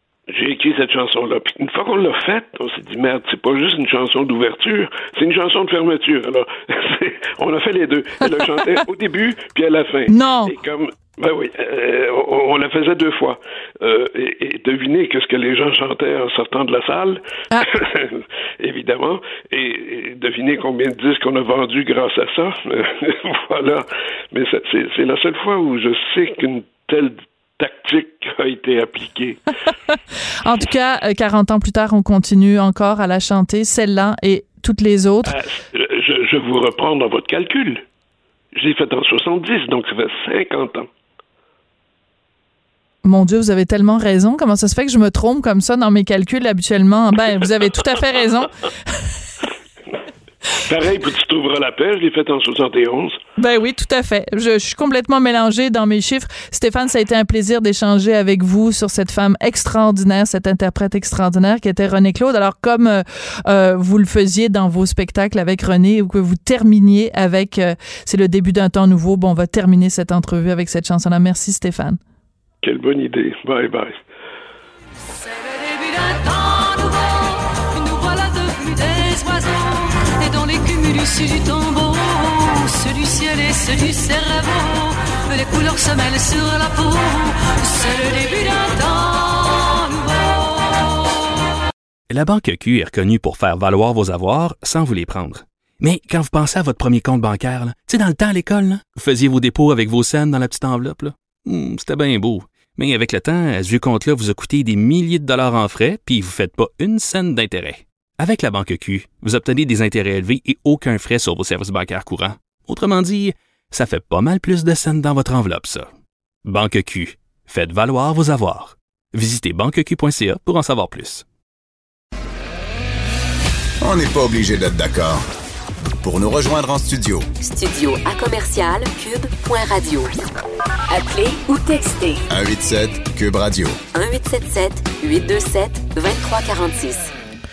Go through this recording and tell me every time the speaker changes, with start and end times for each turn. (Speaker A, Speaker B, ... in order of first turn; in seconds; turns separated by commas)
Speaker A: 0.3-29.4, Speaker B: 10.1-10.5, Speaker B: 30.4-35.4, Speaker A: 35.2-37.8, Speaker A: 38.5-40.9, Speaker B: 43.0-48.5, Speaker A: 50.7-53.2, Speaker B: 53.4-72.0, Speaker A: 72.6-74.0, Speaker C: 75.3-91.2, Speaker D: 92.1-115.9, Speaker D: 116.4-121.2, Speaker E: 123.8-125.2, Speaker E: 126.0-127.2, Speaker F: 127.4-130.2, Speaker F: 130.9-132.2, Speaker E: 132.3-133.8, Speaker F: 133.9-137.1